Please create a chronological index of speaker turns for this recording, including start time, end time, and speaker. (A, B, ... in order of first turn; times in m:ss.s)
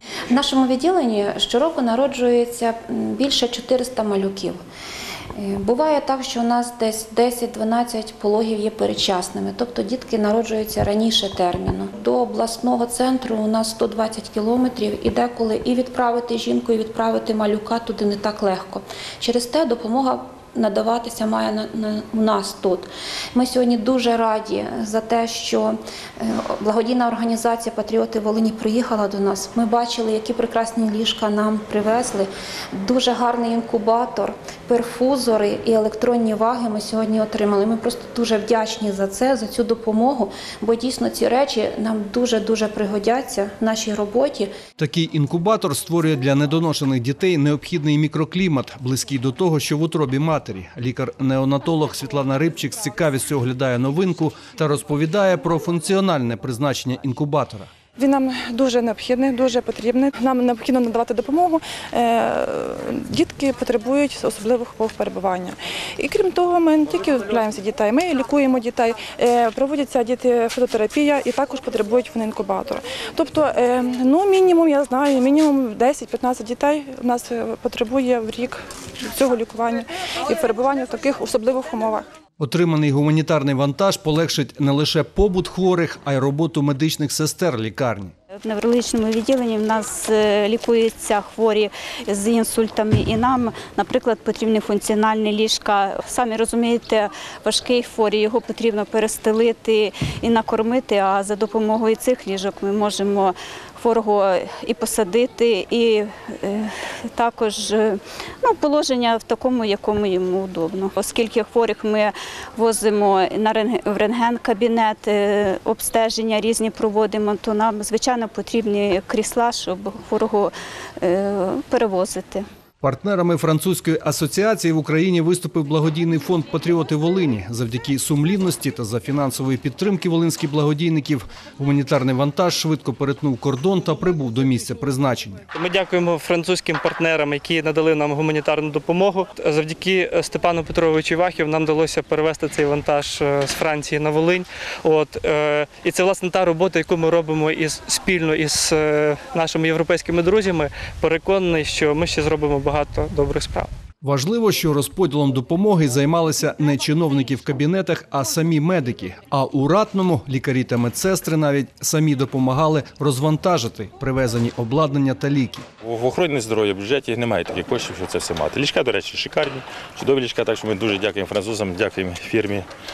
0:00.3-0:04.6 A
0:05.4-0:44.5 A
0:44.8-0:57.7 B
0:58.0-1:22.1 C
1:22.4-1:28.1 B
1:28.4-2:02.4 D
2:02.8-2:15.4 B
2:15.5-2:33.7 E
2:34.0-2:45.7 B
2:45.8-2:52.7 F